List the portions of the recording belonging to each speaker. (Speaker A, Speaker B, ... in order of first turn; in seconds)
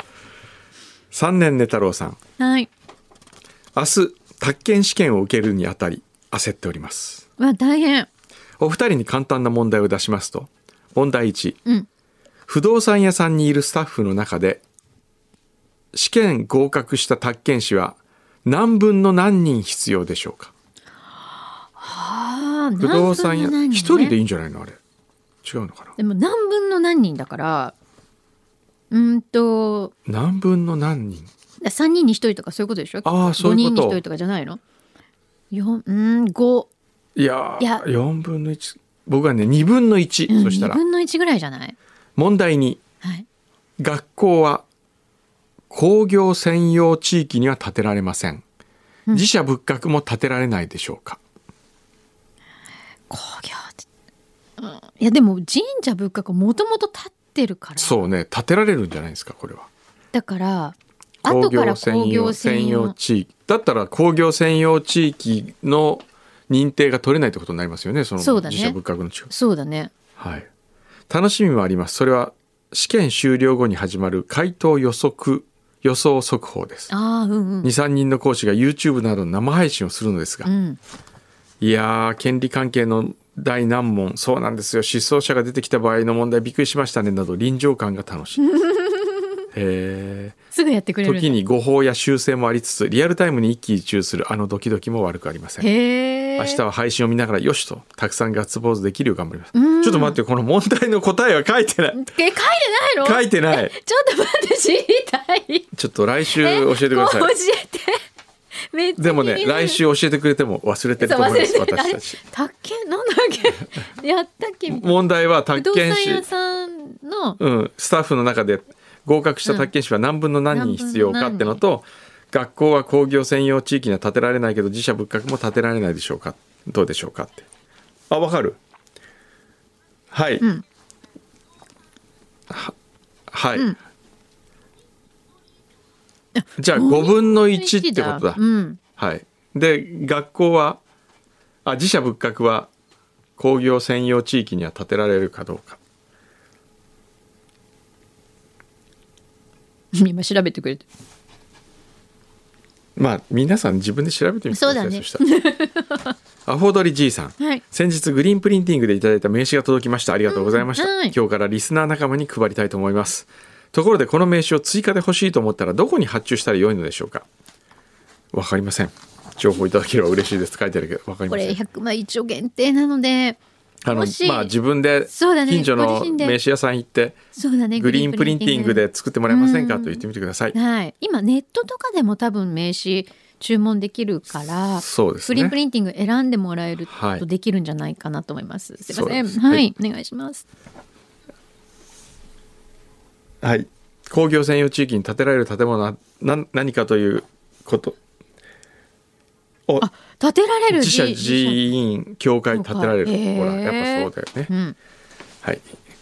Speaker A: 1.1-2.2, 3.8-7.2, 8.6-11.6, 12.5-14.6, 15.9-20.5, 22.8-24.8, 25.4-25.9, 30.1-31.3, 33.0-34.0, 37.2-40.8, 42.2-42.8, 43.8-44.6, 45.7-48.4, 49.1-51.2, 57.8-59.7, 61.2-69.3, 70.2-70.5, 71.1-76.9, 77.6-80.5, 81.6-88.4, 89.5-90.4, 91.0-95.7, 96.4-102.0, 103.0-103.7, 105.7-107.3, 109.0-112.2, 114.7-116.2, 117.4-127.5, 128.1-128.6, 130.1-130.4, 133.3-133.7, 136.6-138.4, 139.0-140.8, 141.7-142.7, 143.4-145.8, 153.0-155.2, 156.5-167.3, 168.3-171.6, 173.8-177.2, 177.8-180.6, 184.8-185.6, 186.9-187.2, 188.9-189.7, 193.4-198.0, 200.7-204.5, 205.4-205.7
Speaker B: 2.4-2.7, 7.4-8.1, 21.8-24.1, 26.0-27.7, 28.9-29.9, 31.6-34.6, 35.5-36.7, 40.3-41.8, 53.1-53.8, 54.6-58.1, 60.1-63.0, 68.2-68.8, 69.3-69.9, 76.9-77.7, 80.5-80.8, 88.5-89.2, 90.5-91.4, 95.6-96.6, 99.5-100.2, 102.0-105.7, 106.3-108.0, 108.7-109.8, 111.0-115.0, 115.5-117.4, 119.5-119.7, 120.5-121.6, 136.3-138.8, 149.9-150.8, 154.5-156.1, 160.3-161.2, 171.3-174.5, 175.1-176.4, 177.3-190.4, 199.8-201.6, 202.5-204.8